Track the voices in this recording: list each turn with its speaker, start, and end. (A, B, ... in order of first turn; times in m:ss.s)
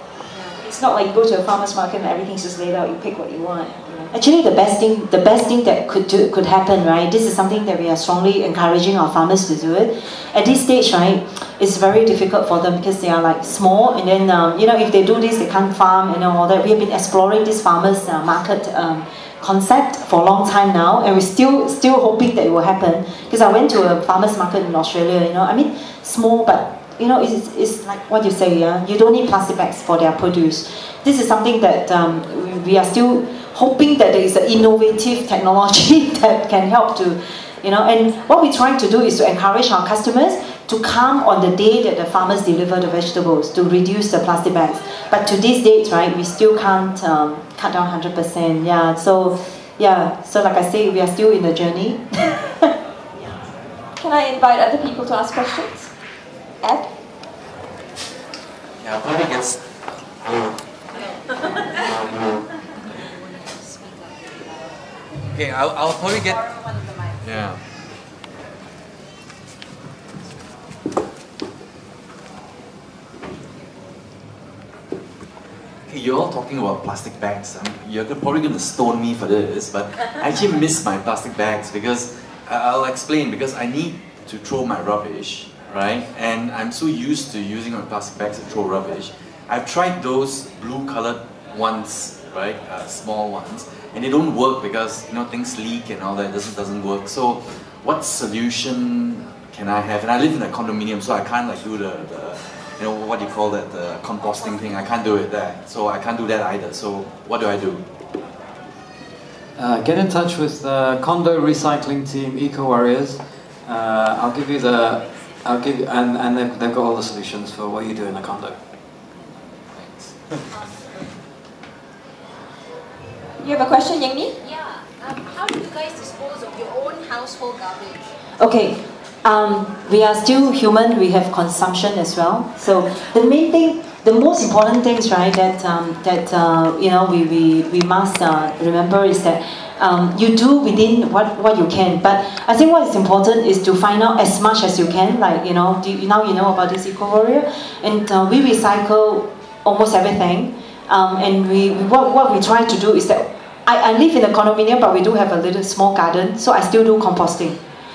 0:00.6-0:04.1 A
0:04.1-0:52.7 B
0:54.0-0:55.9 C
0:56.6-0:56.9 C
0:58.8-0:59.6 D
1:03.6-1:04.2 E
1:05.2-1:07.6 D
1:15.9-1:47.8 D
1:49.6-1:58.6 F
2:03.4-2:04.3 C
2:04.4-2:08.1 E
2:08.4-2:37.6 B